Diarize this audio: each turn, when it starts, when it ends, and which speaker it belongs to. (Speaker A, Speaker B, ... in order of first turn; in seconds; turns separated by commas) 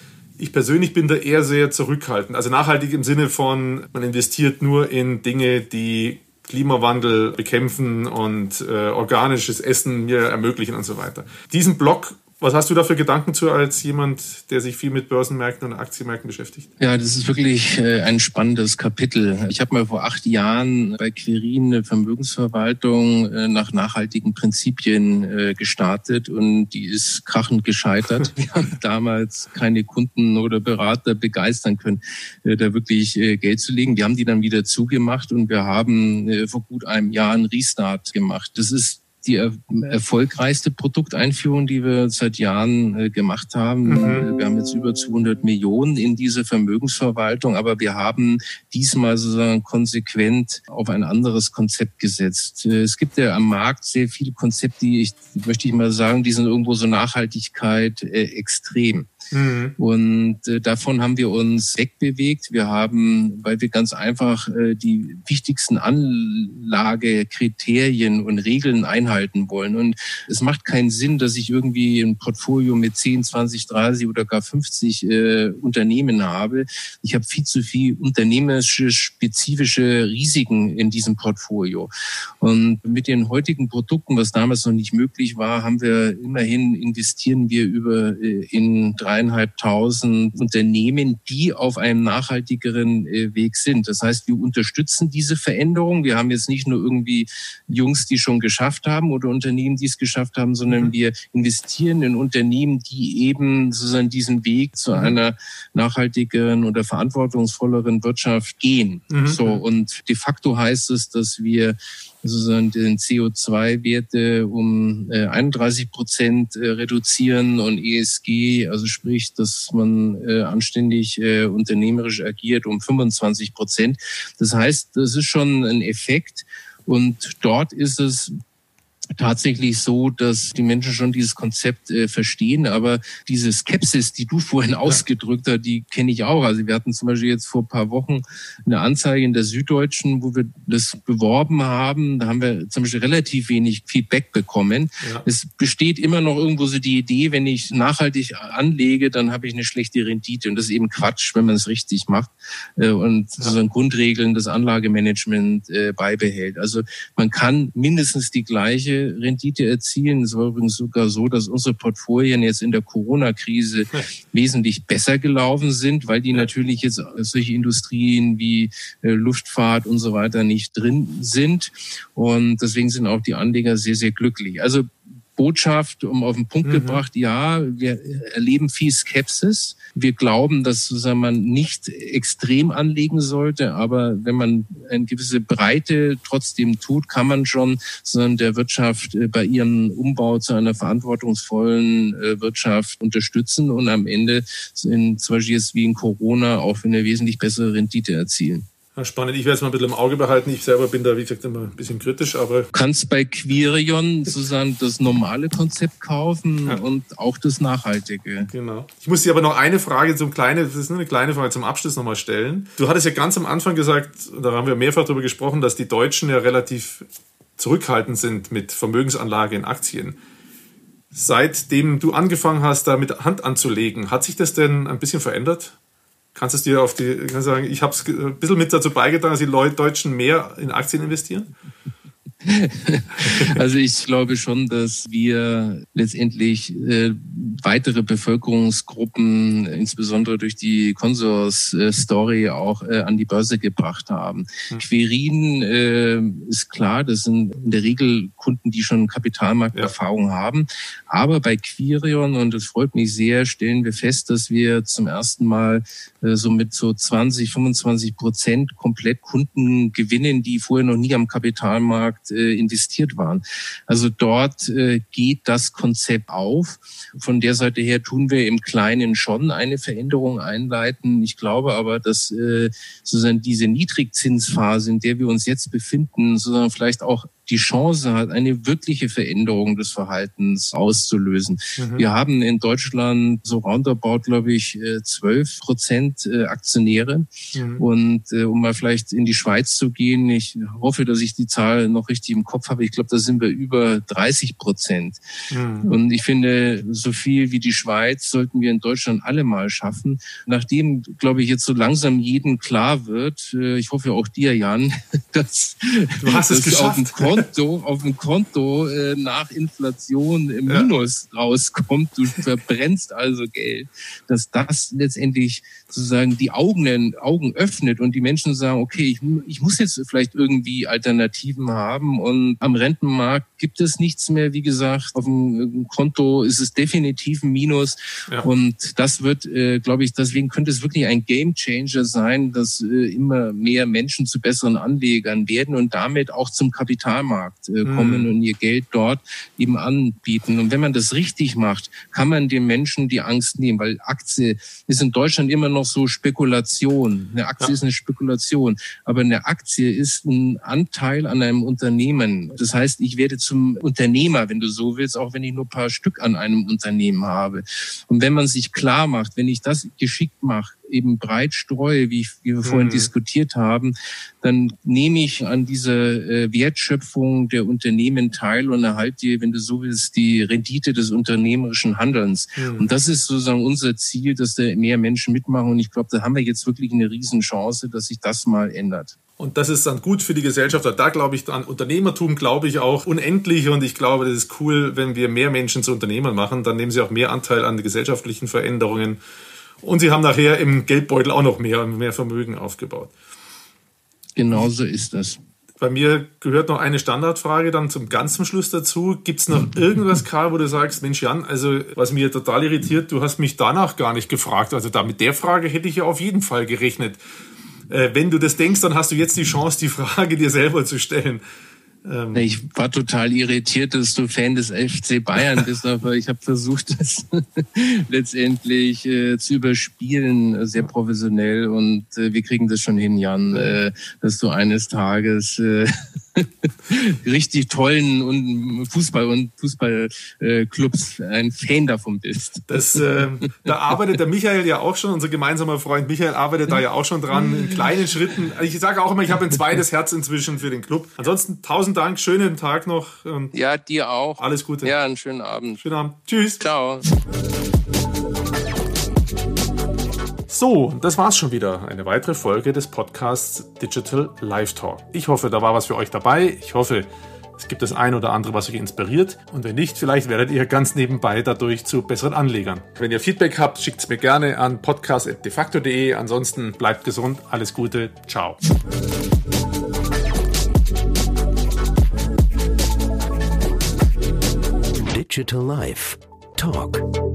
Speaker A: 0.4-16.7, Speaker B: 16.8-59.1, Speaker A: 43.9-44.3, Speaker A: 59.3-59.8, Speaker B: 59.8-81.9, Speaker B: 82.4-128.3, Speaker A: 109.1-109.6, Speaker B: 129.2-198.7, Speaker A: 176.6-177.0, Speaker A: 199.0-202.7, Speaker B: 202.7-208.5, Speaker A: 208.5-217.1, Speaker A: 217.6-220.2, Speaker A: 221.1-225.8, Speaker A: 226.3-231.5, Speaker B: 232.4-295.2, Speaker A: 233.2-233.6, Speaker A: 281.8-282.1, Speaker A: 287.5-287.8, Speaker A: 295.5-295.9, Speaker B: 295.8-379.1, Speaker A: 306.2-307.5, Speaker A: 337.8-338.3, Speaker A: 362.6-363.1, Speaker A: 372.6-372.9, Speaker A: 379.4-389.2, Speaker A: 389.8-393.1, Speaker B: 394.4-395.4, Speaker A: 395.8-407.2, Speaker A: 407.9-411.4, Speaker A: 412.0-412.5, Speaker B: 412.3-433.2, Speaker A: 432.7-443.5, Speaker B: 443.5-445.8, Speaker A: 444.4-444.9, Speaker A: 445.8-446.6, Speaker B: 446.6-447.1, Speaker A: 450.5-468.6, Speaker C: 475.0-477.1